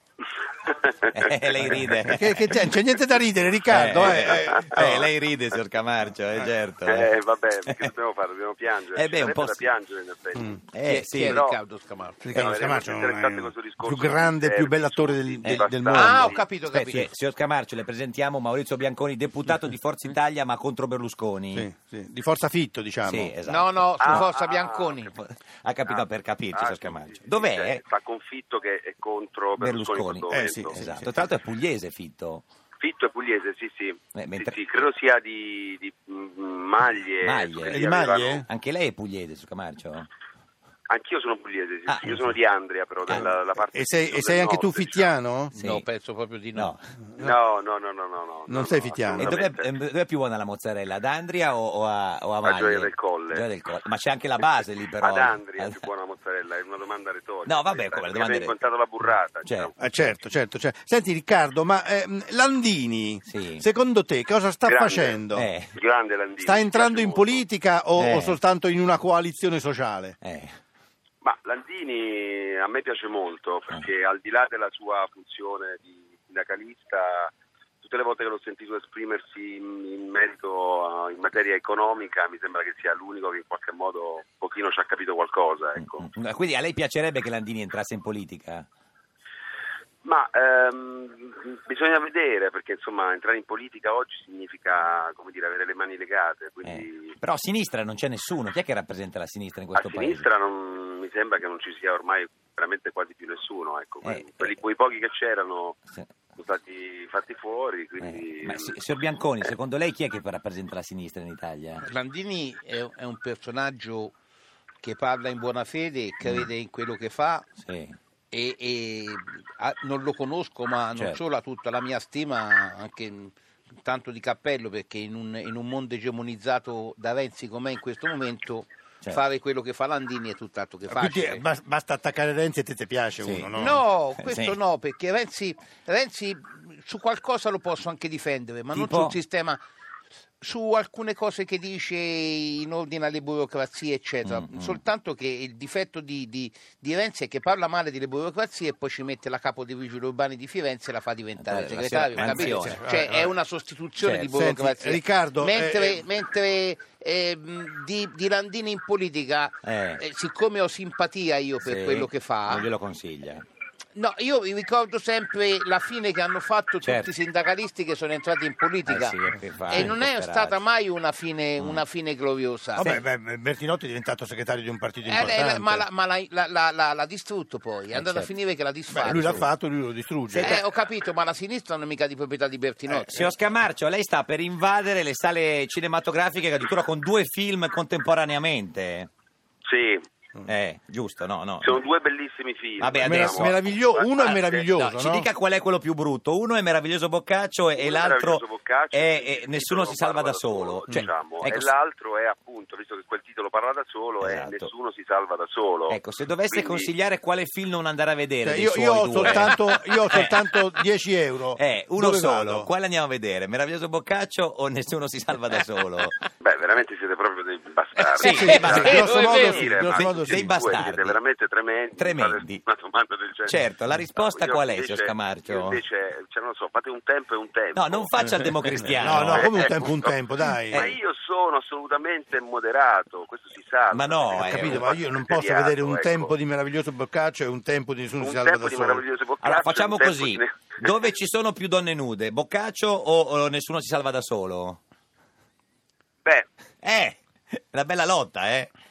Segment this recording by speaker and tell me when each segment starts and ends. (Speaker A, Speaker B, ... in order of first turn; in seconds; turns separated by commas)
Speaker A: 0.6-0.9, Speaker B: 1.1-2.7, Speaker C: 2.0-5.1, Speaker B: 3.7-7.1, Speaker A: 4.2-5.0, Speaker A: 6.8-10.6, Speaker B: 8.9-9.7, Speaker B: 10.7-11.4, Speaker D: 10.8-12.2, Speaker A: 11.3-11.6, Speaker C: 12.2-16.4, Speaker A: 12.3-16.5, Speaker D: 15.9-17.1, Speaker B: 16.7-21.7, Speaker C: 21.5-23.3, Speaker B: 23.0-24.3, Speaker D: 23.4-25.1, Speaker A: 24.0-25.1, Speaker B: 25.1-27.8, Speaker A: 25.9-30.8, Speaker B: 29.6-32.4, Speaker C: 30.3-31.1, Speaker A: 32.8-38.5, Speaker B: 34.1-34.6, Speaker B: 37.2-37.9, Speaker C: 37.7-38.5, Speaker B: 38.5-40.1, Speaker A: 40.9-45.1, Speaker B: 41.9-42.3, Speaker B: 43.1-43.3, Speaker C: 43.1-45.5, Speaker D: 45.5-46.7, Speaker B: 45.5-45.9, Speaker B: 46.5-46.8, Speaker A: 47.2-49.6, Speaker C: 48.5-49.4, Speaker B: 49.2-55.9, Speaker A: 52.4-53.5, Speaker A: 55.0-59.7, Speaker B: 57.5-58.5, Speaker B: 59.4-60.1, Speaker C: 59.8-65.5, Speaker B: 63.3-63.6, Speaker A: 64.6-65.2, Speaker B: 65.3-65.7, Speaker A: 65.7-67.4, Speaker C: 66.4-70.2, Speaker B: 68.0-68.4, Speaker B: 70.2-70.5, Speaker A: 71.2-77.3, Speaker A: 77.8-86.1, Speaker B: 85.8-88.7, Speaker A: 90.0-97.1, Speaker B: 96.6-100.3, Speaker A: 99.8-105.8, Speaker B: 104.0-104.6, Speaker A: 106.4-108.7, Speaker B: 108.0-111.8, Speaker D: 111.8-114.1, Speaker D: 114.8-117.5, Speaker B: 117.6-118.0, Speaker D: 118.3-131.4, Speaker C: 130.9-133.8, Speaker B: 133.2-134.6, Speaker D: 133.5-139.6, Speaker B: 138.7-139.2, Speaker D: 140.4-162.7, Speaker B: 144.2-144.8, Speaker B: 151.4-152.8, Speaker C: 152.2-153.3, Speaker B: 154.0-154.3, Speaker C: 154.3-156.0, Speaker B: 159.6-160.0, Speaker B: 161.6-163.4, Speaker D: 163.9-172.9, Speaker B: 166.8-167.1, Speaker B: 168.9-170.6, Speaker C: 172.8-175.8, Speaker D: 175.0-179.5, Speaker B: 177.9-178.3, Speaker C: 178.9-180.6, Speaker B: 180.3-180.6, Speaker D: 180.3-183.3, Speaker C: 182.9-183.2, Speaker B: 183.1-189.1, Speaker A: 189.7-190.0, Speaker B: 190.4-191.8, Speaker A: 191.6-194.7, Speaker B: 192.8-193.6, Speaker C: 193.0-195.3, Speaker B: 194.2-201.7, Speaker A: 197.8-206.0, Speaker B: 204.2-204.7, Speaker B: 205.9-210.3, Speaker A: 206.5-206.9, Speaker C: 208.4-212.7, Speaker B: 211.6-216.2, Speaker A: 216.4-223.6, Speaker D: 218.0-219.5, Speaker B: 218.2-221.2, Speaker C: 218.2-220.6, Speaker B: 222.0-222.6, Speaker B: 223.5-225.8, Speaker A: 224.2-228.1, Speaker B: 227.7-229.7, Speaker C: 228.9-230.9, Speaker A: 229.3-230.1, Speaker B: 230.7-230.9, Speaker A: 230.7-236.3, Speaker B: 233.9-234.9, Speaker C: 234.3-239.0, Speaker A: 238.2-240.9, Speaker B: 239.4-244.8, Speaker B: 246.8-248.7